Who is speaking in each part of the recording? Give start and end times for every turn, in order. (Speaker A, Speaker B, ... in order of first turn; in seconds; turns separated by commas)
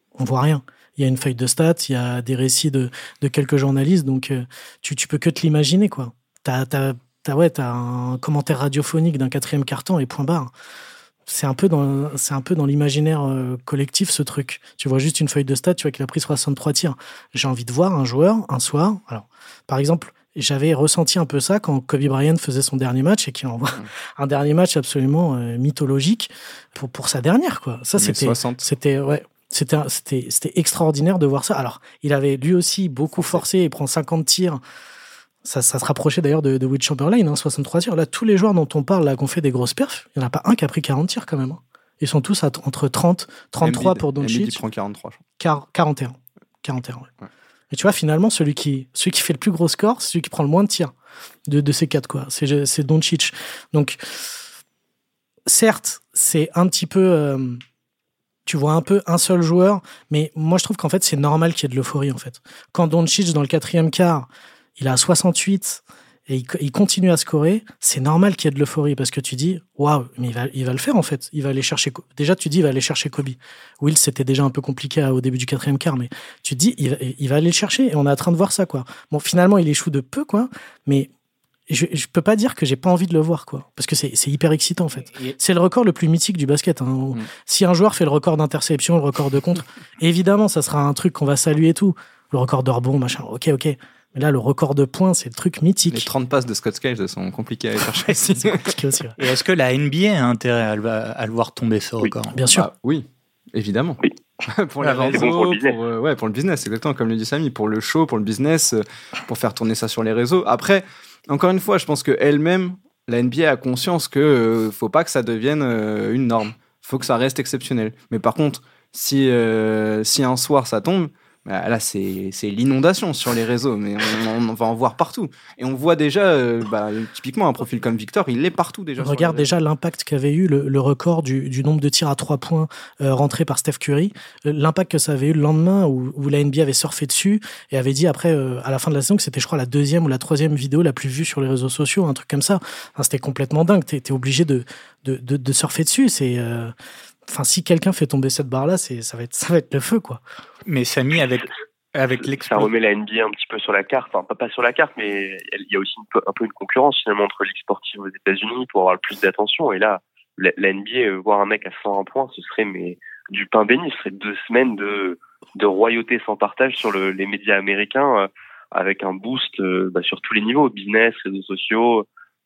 Speaker A: 0.2-10.5, Speaker A: 11.3-34.6, Speaker B: 28.0-28.6, Speaker A: 35.4-44.6, Speaker B: 43.6-45.2, Speaker A: 45.4-47.1, Speaker A: 47.7-50.9, Speaker A: 51.5-54.3, Speaker A: 55.5-57.6, Speaker A: 58.5-81.1, Speaker A: 81.7-96.1, Speaker B: 95.9-98.7, Speaker A: 98.5-99.2, Speaker C: 99.2-102.4, Speaker A: 102.3-102.7, Speaker B: 102.5-129.6, Speaker C: 104.8-105.3, Speaker D: 105.1-105.7, Speaker A: 129.0-146.7, Speaker A: 147.3-150.2, Speaker C: 150.7-152.7, Speaker D: 152.4-172.1